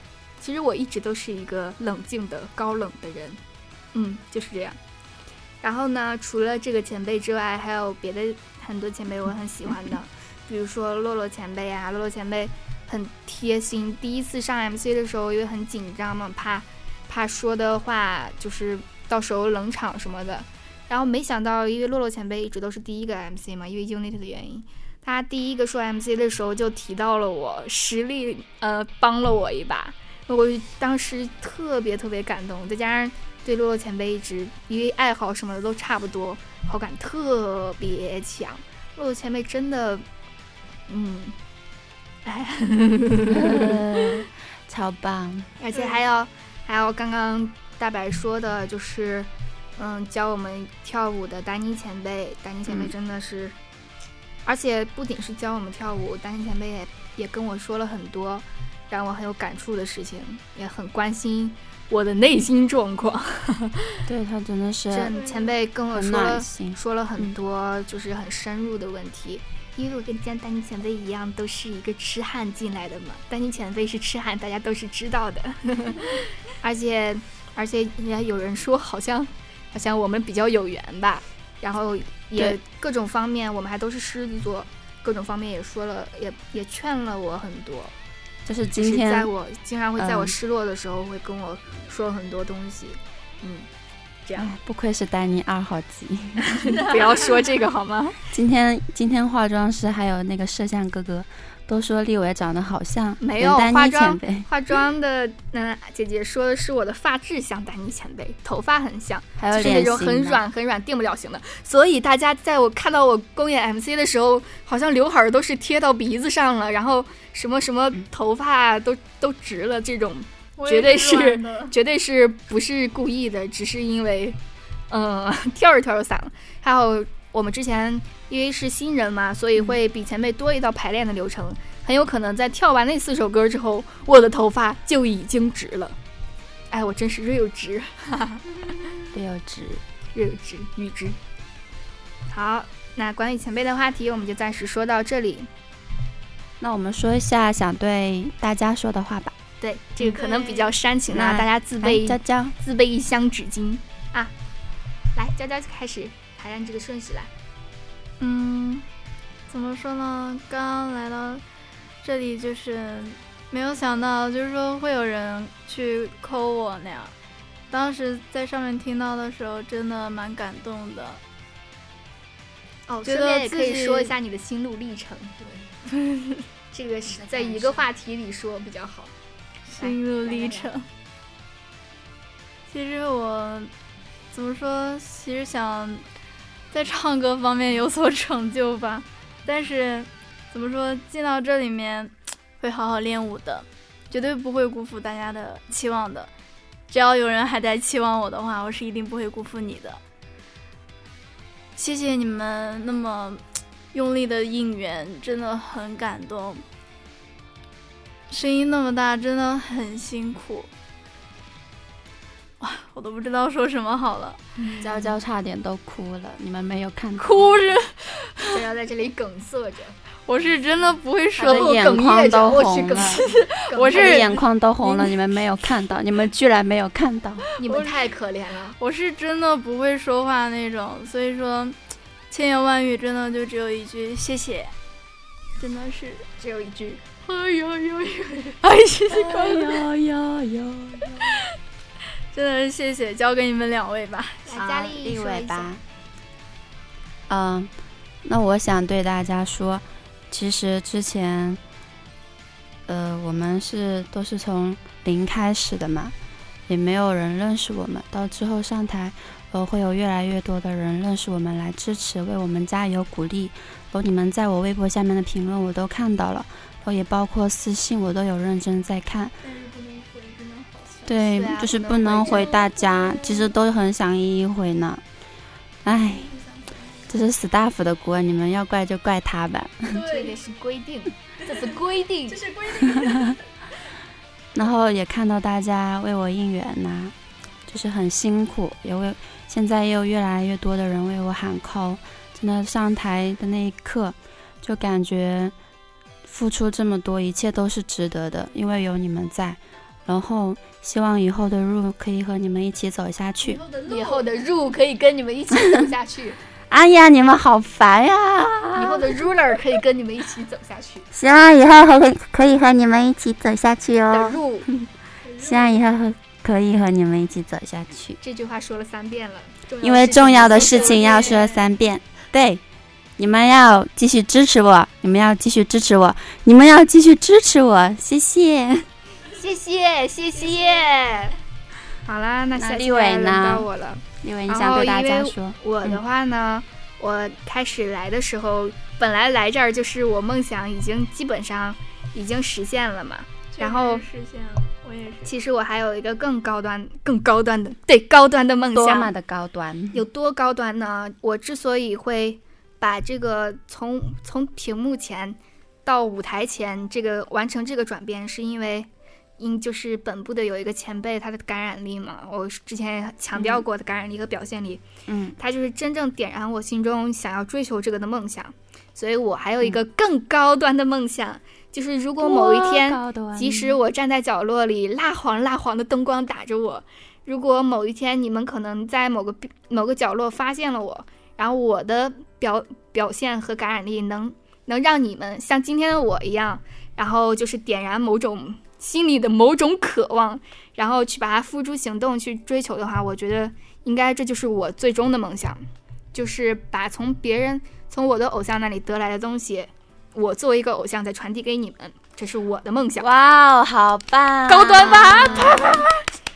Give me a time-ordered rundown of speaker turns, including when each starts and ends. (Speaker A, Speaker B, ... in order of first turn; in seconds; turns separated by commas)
Speaker A: 0.4-3.4, Speaker A: 3.9-4.8, Speaker A: 5.6-40.0, Speaker A: 40.9-41.4, Speaker A: 42.2-43.8, Speaker B: 43.3-45.5, Speaker A: 45.6-53.5, Speaker C: 45.7-46.0, Speaker A: 54.5-64.0, Speaker B: 64.1-65.1, Speaker A: 64.9-87.9, Speaker C: 65.1-65.6, Speaker B: 65.9-67.3, Speaker B: 88.5-89.3, Speaker A: 88.7-93.7, Speaker B: 90.0-90.3, Speaker A: 94.2-94.5, Speaker B: 94.3-96.5, Speaker A: 96.4-98.2, Speaker B: 98.3-104.5, Speaker A: 103.2-124.4, Speaker B: 109.4-110.4, Speaker C: 120.6-121.7, Speaker A: 124.9-136.0, Speaker A: 136.7-138.4, Speaker B: 139.1-139.8, Speaker A: 140.1-141.2, Speaker A: 142.3-145.5, Speaker B: 146.6-149.3, Speaker A: 149.6-154.3, Speaker C: 150.0-150.7, Speaker B: 151.1-152.6, Speaker A: 155.1-157.3, Speaker C: 158.2-158.8, Speaker C: 159.5-161.4, Speaker C: 162.0-167.1, Speaker C: 167.7-171.2, Speaker A: 172.9-175.6, Speaker C: 173.0-174.2, Speaker C: 175.9-176.4, Speaker A: 176.7-179.1, Speaker C: 179.7-180.8, Speaker A: 179.8-180.7, Speaker C: 182.7-183.7, Speaker C: 184.3-186.0, Speaker C: 186.7-196.3, Speaker C: 196.9-200.0, Speaker C: 201.8-203.4, Speaker C: 203.9-206.6, Speaker C: 208.3-210.7, Speaker C: 212.6-214.4, Speaker A: 214.6-215.1, Speaker B: 214.8-217.6, Speaker C: 217.2-218.6, Speaker A: 218.4-219.9, Speaker C: 220.2-221.8, Speaker A: 221.4-224.3, Speaker B: 221.4-223.2, Speaker C: 223.0-225.4, Speaker B: 223.9-227.4, Speaker C: 227.5-228.1, Speaker A: 227.6-228.8, Speaker C: 228.8-231.8, Speaker C: 232.3-234.7, Speaker C: 235.6-236.2, Speaker A: 236.4-237.0, Speaker C: 237.2-239.8, Speaker B: 239.1-241.4, Speaker C: 242.3-244.6, Speaker A: 244.5-245.7, Speaker B: 244.6-245.8, Speaker B: 247.3-247.7, Speaker B: 248.2-251.6, Speaker B: 252.9-256.1, Speaker B: 256.7-269.3, Speaker C: 269.4-271.2, Speaker B: 271.1-275.0, Speaker A: 271.3-272.6, Speaker C: 272.2-273.5, Speaker B: 275.8-276.3, Speaker C: 275.9-277.1, Speaker B: 277.1-280.0, Speaker C: 279.9-280.4, Speaker A: 280.0-282.4, Speaker C: 281.4-283.4, Speaker B: 282.9-283.4, Speaker B: 284.5-287.1, Speaker B: 287.7-295.5, Speaker B: 296.2-303.6, Speaker C: 303.4-304.4, Speaker A: 303.9-306.4, Speaker B: 306.7-309.2, Speaker A: 308.7-311.1, Speaker B: 311.1-318.2, Speaker A: 314.1-314.7, Speaker C: 315.2-315.9, Speaker A: 318.2-321.4, Speaker B: 319.8-322.6, Speaker C: 320.3-321.6, Speaker B: 323.2-328.9, Speaker A: 329.3-331.4, Speaker A: 332.1-344.0, Speaker B: 332.5-333.7, Speaker B: 334.2-336.0, Speaker C: 343.5-345.3, Speaker A: 345.2-349.1, Speaker B: 348.7-350.0, Speaker A: 349.9-364.8, Speaker B: 363.3-363.6, Speaker B: 365.1-365.4, Speaker A: 365.4-395.6, Speaker B: 372.2-373.8, Speaker A: 396.1-403.1, Speaker B: 403.0-406.0, Speaker A: 404.5-405.8